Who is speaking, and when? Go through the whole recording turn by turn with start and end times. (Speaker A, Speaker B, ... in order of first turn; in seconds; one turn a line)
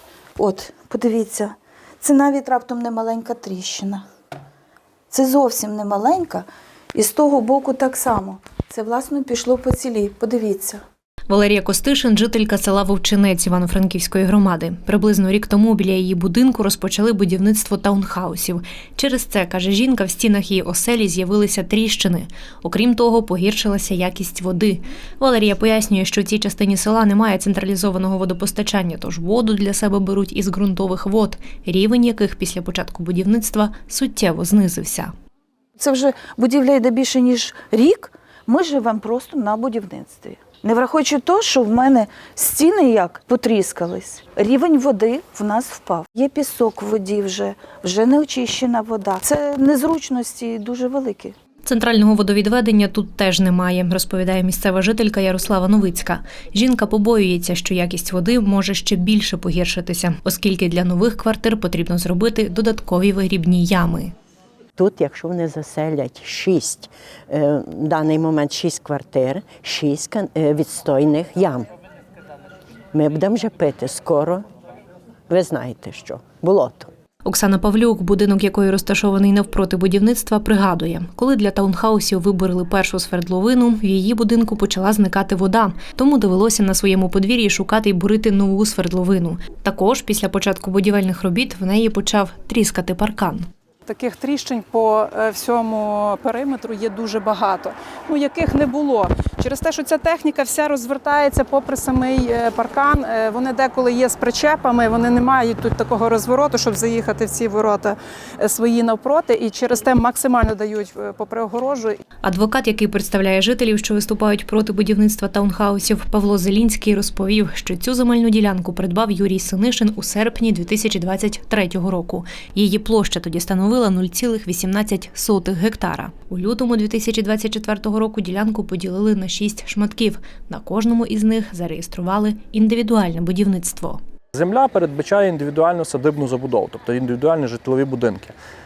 Speaker A: 0.3-4.0
Speaker A: 5.1-10.8
Speaker B: 11.3-35.1
Speaker A: 35.8-51.4
Speaker B: 51.6-64.1
Speaker C: 64.8-71.7
Speaker C: 72.9-74.5
Speaker C: 75.3-76.9
Speaker B: 77.2-93.5
Speaker D: 93.8-112.0
Speaker B: 112.2-134.0
Speaker E: 134.3-138.3